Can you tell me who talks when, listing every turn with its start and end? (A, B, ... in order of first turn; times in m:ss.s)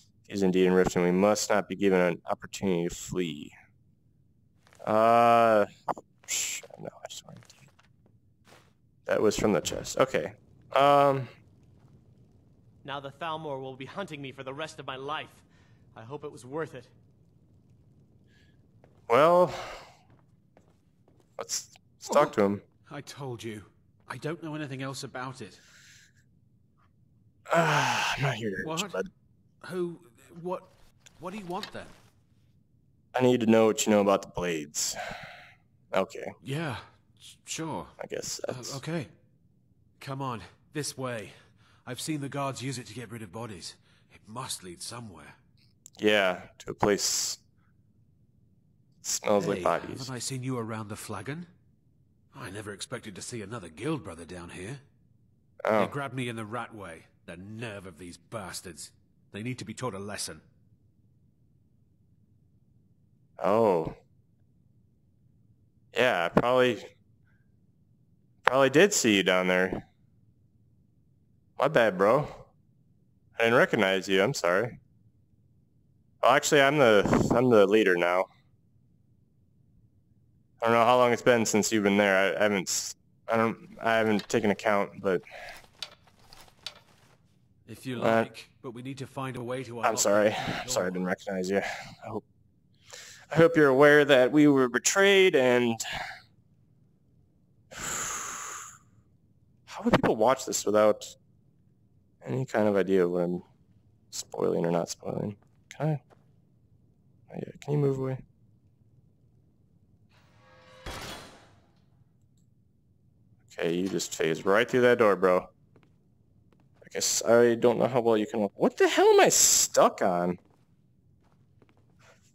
0:00.3-0:03.5 A
0:04.8-0:05.7 A
0:06.2-0:07.7 A
0:09.1-0:11.3 A
0:12.8-0:15.4 B
0:16.0-0:16.9 B
0:19.1-0:19.9 A
0:21.4-0:22.6 A
0:22.1-0:22.4 C
0:22.9-0:25.6 C
0:27.5-0:29.1 A
0:28.6-0:29.0 C
0:29.6-0:31.9 C
0:33.1-0:35.0 A
0:35.9-0:36.4 A
0:36.4-0:38.0 C
0:38.0-0:38.8 A
0:38.5-0:39.1 C
0:40.0-0:45.4 C
0:46.0-0:47.4 A
0:49.0-0:50.1 A
0:49.4-0:51.5 C
0:52.3-0:54.8 C
0:55.6-0:55.9 A
0:55.8-1:00.4 C
1:03.4-1:04.0 A
1:05.9-1:06.9 A
1:08.4-1:09.8 A
1:11.6-1:12.5 A
1:13.4-1:14.8 A
1:16.2-1:18.3 A
1:20.6-1:25.2 A
1:27.7-1:31.0 C
1:28.0-1:28.3 A
1:29.8-1:32.2 A
1:33.3-1:35.8 A
1:37.7-1:38.7 A
1:39.7-1:41.2 A
1:42.2-1:43.4 A
1:44.1-1:46.0 A
1:47.3-1:48.2 A
1:53.5-1:55.5 A
1:56.8-2:00.4 A